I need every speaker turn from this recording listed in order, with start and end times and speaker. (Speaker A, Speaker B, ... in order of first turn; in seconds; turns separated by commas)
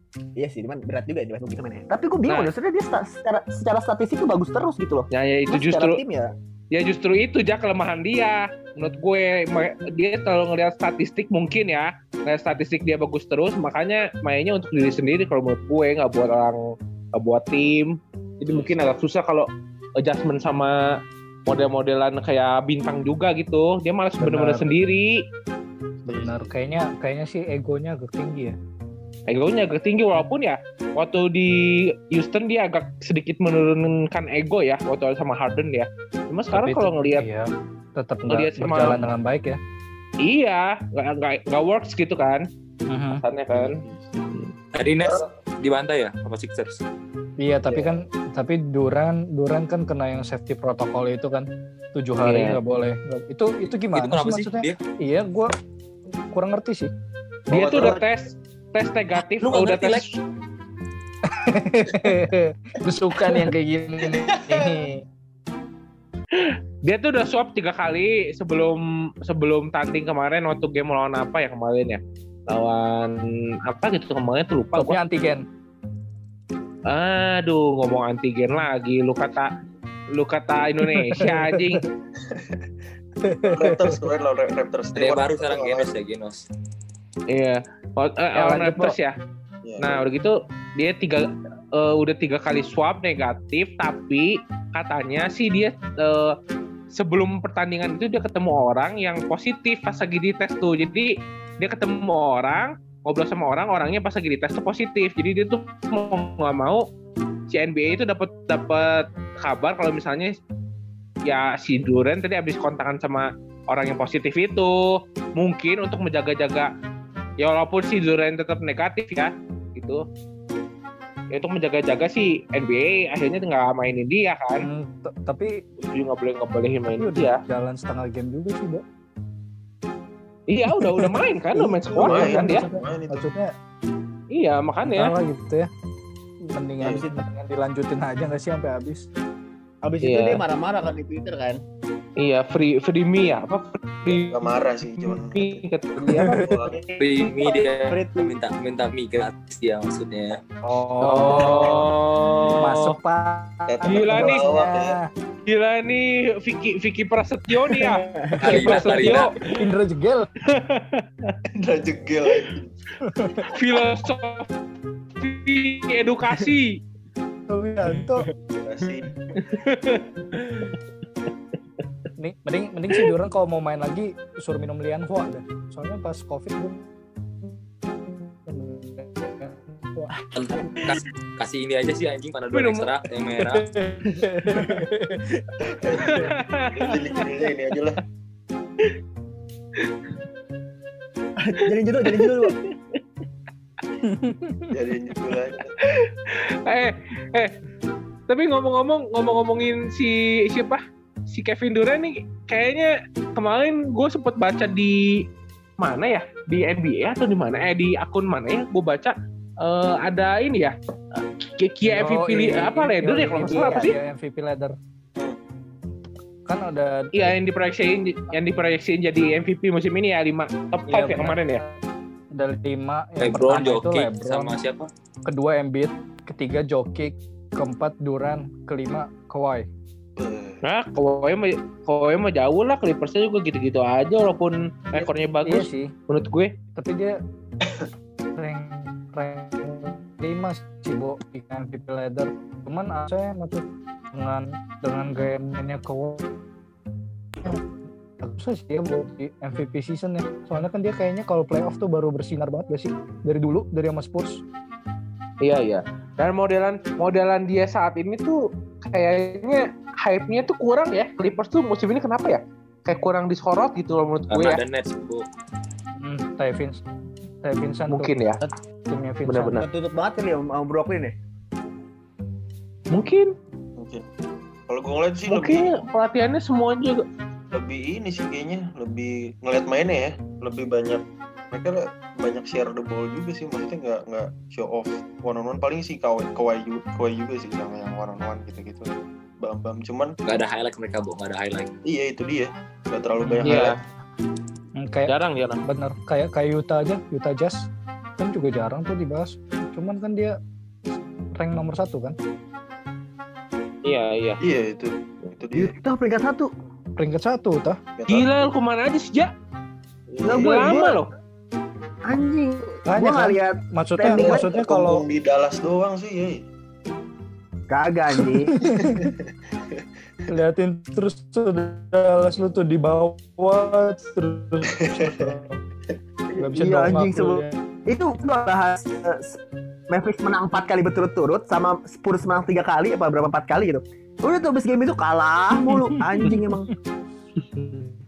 Speaker A: 0.4-6.3, Speaker B: 2.3-2.5, Speaker B: 5.1-6.0, Speaker B: 6.7-19.5, Speaker C: 18.5-18.8, Speaker B: 20.0-20.7, Speaker B: 21.5-25.2, Speaker D: 24.2-24.7, Speaker D: 26.1-28.6, Speaker C: 26.1-26.5, Speaker B: 29.3-37.3, Speaker D: 36.5-39.6, Speaker B: 38.3-39.0, Speaker B: 40.2-42.5, Speaker D: 42.9-43.2, Speaker B: 43.1-44.5, Speaker C: 43.5-44.1, Speaker E: 44.7-46.8, Speaker D: 47.4-55.5, Speaker B: 52.2-52.6, Speaker E: 53.9-54.8, Speaker D: 56.3-56.9, Speaker B: 57.5-60.2, Speaker C: 57.5-58.0, Speaker E: 59.4-60.1, Speaker D: 61.3-65.0, Speaker C: 64.0-64.7, Speaker B: 66.3-75.0, Speaker D: 74.8-75.4, Speaker B: 76.9-79.5, Speaker B: 80.1-81.8, Speaker D: 80.9-81.8, Speaker C: 82.2-82.6, Speaker D: 83.2-83.9, Speaker C: 83.4-85.9, Speaker E: 85.0-86.4, Speaker B: 87.3-89.2, Speaker D: 88.4-89.0, Speaker C: 89.6-89.9, Speaker B: 89.8-96.4, Speaker B: 96.9-106.8, Speaker B: 107.5-110.4, Speaker B: 111.3-116.7, Speaker B: 117.4-120.0, Speaker B: 121.3-124.7, Speaker D: 124.6-125.6, Speaker B: 125.8-127.4, Speaker D: 127.0-128.8, Speaker B: 130.5-132.6, Speaker D: 130.8-133.5, Speaker C: 132.0-133.2, Speaker B: 134.3-135.1, Speaker D: 134.8-135.7, Speaker D: 136.5-139.1, Speaker A: 136.8-137.2, Speaker A: 139.8-141.6, Speaker B: 140.0-140.4, Speaker B: 142.2-146.4, Speaker C: 144.1-146.8, Speaker D: 146.1-146.4, Speaker A: 146.6-148.4, Speaker E: 147.0-150.4, Speaker D: 150.6-151.9, Speaker B: 151.0-153.0, Speaker C: 151.3-151.7, Speaker D: 152.6-155.1, Speaker C: 153.7-155.0, Speaker B: 153.8-154.4, Speaker B: 155.5-159.3, Speaker A: 157.6-158.6, Speaker E: 158.4-159.3, Speaker D: 158.5-160.3, Speaker B: 160.5-161.4, Speaker C: 161.6-162.7, Speaker D: 163.0-163.5, Speaker B: 163.5-164.5, Speaker B: 165.2-166.8, Speaker D: 167.5-168.3, Speaker C: 168.6-169.1, Speaker B: 169.4-170.3, Speaker D: 172.2-176.9, Speaker D: 178.0-180.1, Speaker E: 180.3-183.7, Speaker A: 180.6-181.0, Speaker B: 182.5-182.9, Speaker D: 183.5-185.4, Speaker A: 185.9-186.2, Speaker B: 186.0-187.2, Speaker C: 186.7-188.0, Speaker A: 191.4-192.6, Speaker B: 192.1-193.0, Speaker D: 194.0-194.7, Speaker C: 194.7-195.7, Speaker B: 195.9-197.5, Speaker B: 198.3-205.0, Speaker B: 205.8-214.0, Speaker D: 211.9-214.8, Speaker A: 213.6-213.8, Speaker D: 216.5-217.4, Speaker B: 217.2-221.6, Speaker D: 220.9-221.8, Speaker D: 222.3-224.6, Speaker E: 223.2-224.9, Speaker D: 225.3-229.7, Speaker C: 230.2-230.6, Speaker B: 230.6-236.5, Speaker D: 235.4-235.9, Speaker D: 236.8-237.2, Speaker D: 238.4-243.6, Speaker D: 244.1-246.2, Speaker D: 248.2-254.4, Speaker B: 255.4-264.6, Speaker E: 264.3-265.3, Speaker D: 266.0-266.8, Speaker D: 267.4-268.1, Speaker B: 267.9-268.4, Speaker D: 268.9-269.6, Speaker B: 269.3-269.7, Speaker A: 269.6-271.1, Speaker B: 272.9-273.3, Speaker C: 273.8-274.1, Speaker C: 274.7-275.8, Speaker B: 275.3-277.0, Speaker C: 277.5-288.9, Speaker C: 289.4-290.2, Speaker E: 290.3-291.7, Speaker C: 291.8-293.8, Speaker D: 293.3-293.7, Speaker B: 293.4-293.8, Speaker D: 294.8-297.7, Speaker B: 295.1-295.6, Speaker D: 298.2-300.4, Speaker D: 301.4-302.2, Speaker B: 303.9-304.4, Speaker C: 304.4-305.7, Speaker A: 305.6-306.5, Speaker D: 307.0-307.8, Speaker C: 308.0-308.5, Speaker B: 308.1-309.3, Speaker C: 310.1-310.8, Speaker A: 310.2-311.0, Speaker B: 310.4-311.1, Speaker A: 312.1-314.5, Speaker D: 312.9-315.0, Speaker C: 314.1-316.4, Speaker A: 317.7-318.6, Speaker D: 318.5-319.1, Speaker C: 318.6-319.2, Speaker D: 320.3-325.6, Speaker C: 324.8-325.3, Speaker A: 326.3-336.7, Speaker D: 326.4-327.5, Speaker D: 335.7-336.5, Speaker B: 337.4-337.9